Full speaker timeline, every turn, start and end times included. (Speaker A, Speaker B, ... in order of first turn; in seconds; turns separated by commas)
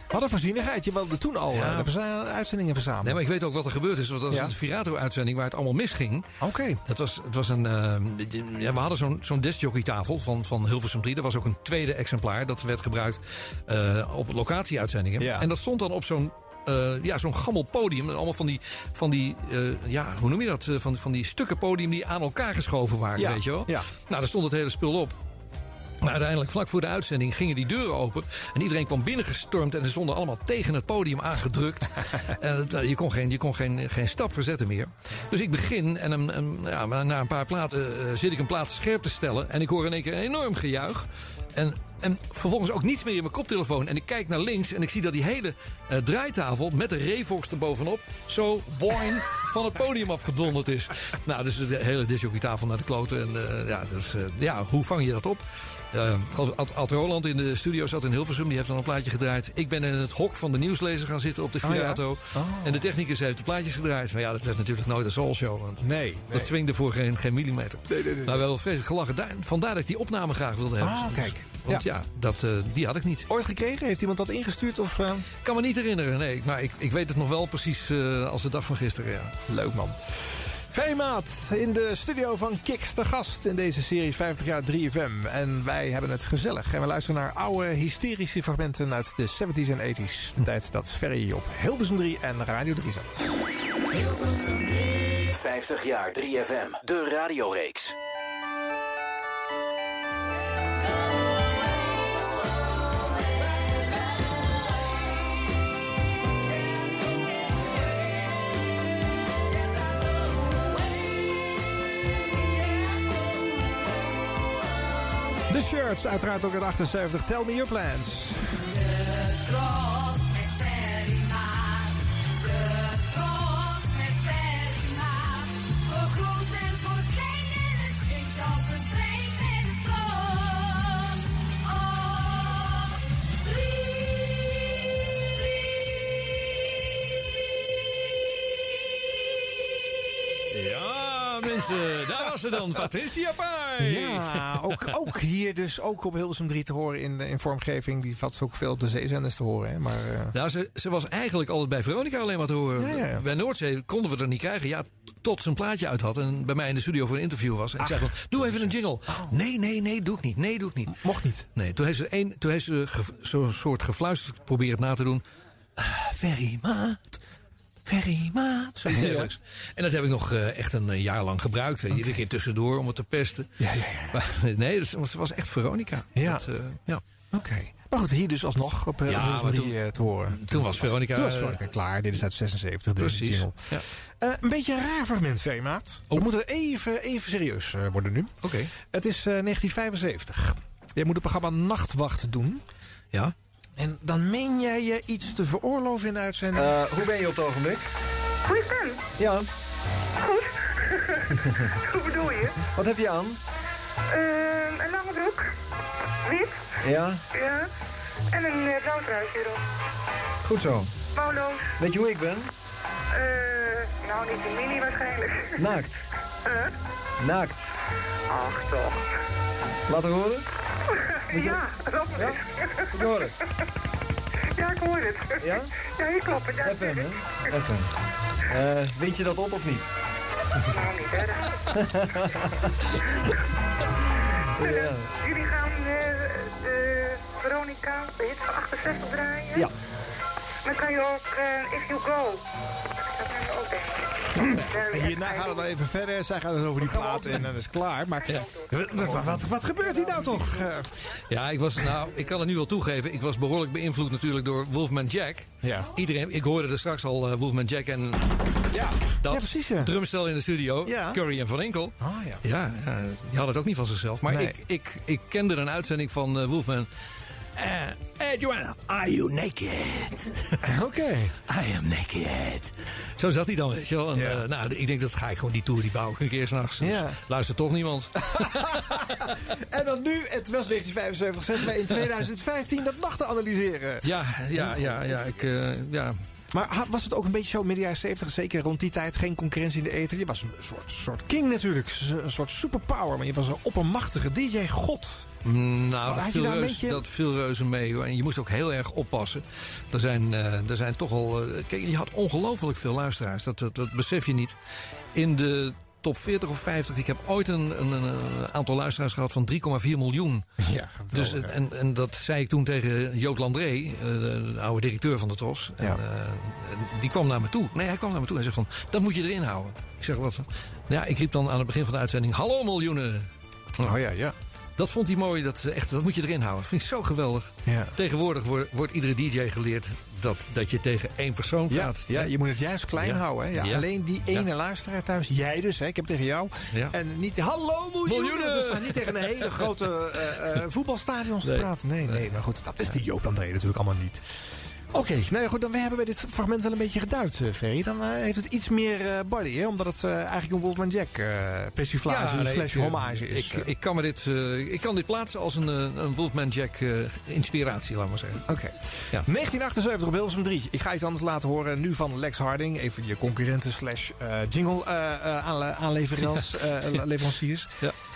Speaker A: 0.1-3.2, Speaker B: 1.5-1.9, Speaker B: 3.0-6.3, Speaker A: 6.4-6.8, Speaker B: 6.8-25.2, Speaker A: 15.2-15.5, Speaker A: 23.1-23.9, Speaker B: 26.0-73.3, Speaker A: 61.6-62.8, Speaker A: 65.8-66.5, Speaker A: 67.9-68.4, Speaker A: 70.8-71.8, Speaker A: 73.3-75.3, Speaker B: 75.4-79.3, Speaker A: 79.5-93.4, Speaker C: 95.3-97.9, Speaker A: 115.5-118.6, Speaker B: 140.5-144.5, Speaker A: 143.8-150.3, Speaker B: 150.3-160.9, Speaker A: 152.8-153.2, Speaker A: 157.8-159.3, Speaker A: 160.9-161.5, Speaker B: 161.5-165.2, Speaker B: 165.8-167.2, Speaker A: 167.9-169.3, Speaker B: 168.0-173.6, Speaker A: 173.6-174.2, Speaker B: 174.1-177.0, Speaker A: 176.2-176.4, Speaker A: 177.3-183.7, Speaker B: 179.1-179.8, Speaker B: 180.3-181.6, Speaker B: 183.0-183.8, Speaker A: 184.2-188.3, Speaker B: 188.4-188.7, Speaker A: 188.8-192.6, Speaker A: 193.8-196.8, Speaker D: 196.5-197.9, Speaker E: 198.4-199.1, Speaker D: 199.2-199.5, Speaker E: 200.2-201.2, Speaker E: 201.8-202.6, Speaker D: 202.7-203.4, Speaker E: 204.1-205.5, Speaker E: 206.2-206.7, Speaker D: 206.8-207.2, Speaker E: 207.3-207.7, Speaker E: 208.3-209.6, Speaker D: 210.4-210.9, Speaker E: 211.1-211.7, Speaker D: 211.8-212.5, Speaker E: 213.1-215.5, Speaker D: 215.6-215.9, Speaker E: 216.4-216.7, Speaker D: 217.2-217.6, Speaker E: 218.3-219.0, Speaker D: 219.9-220.4, Speaker E: 220.9-222.8, Speaker D: 221.3-221.6, Speaker D: 222.1-222.4, Speaker D: 222.9-223.3, Speaker E: 224.5-227.6, Speaker D: 225.4-225.7, Speaker D: 226.6-227.9, Speaker D: 228.5-229.9, Speaker E: 230.7-231.7, Speaker D: 231.7-232.3, Speaker E: 234.6-239.7, Speaker D: 234.6-235.1, Speaker E: 240.6-242.4, Speaker E: 243.1-245.7, Speaker A: 244.4-250.9, Speaker E: 246.9-247.4, Speaker B: 248.2-249.5, Speaker E: 248.5-248.8, Speaker B: 250.1-250.6, Speaker B: 251.2-258.3, Speaker A: 255.6-255.9, Speaker A: 258.7-259.9, Speaker B: 259.2-266.9, Speaker A: 260.8-261.2, Speaker A: 262.0-262.4, Speaker A: 264.2-264.6, Speaker B: 267.6-270.6, Speaker A: 270.6-271.3, Speaker B: 271.5-279.3, Speaker A: 274.1-274.4, Speaker A: 276.8-277.2, Speaker A: 278.4-285.3, Speaker B: 284.0-286.2, Speaker A: 286.5-295.3, Speaker B: 295.4-304.6, Speaker A: 296.0-297.0, Speaker B: 305.1-310.4, Speaker A: 310.6-311.6, Speaker B: 311.1-323.9, Speaker A: 323.8-324.3, Speaker B: 324.8-332.3, Speaker A: 327.6-327.9, Speaker A: 331.7-344.2, Speaker B: 333.0-334.5, Speaker B: 338.1-339.7, Speaker B: 341.4-342.3, Speaker A: 344.9-353.7, Speaker B: 352.1-358.4, Speaker A: 358.5-367.7, Speaker B: 366.2-366.5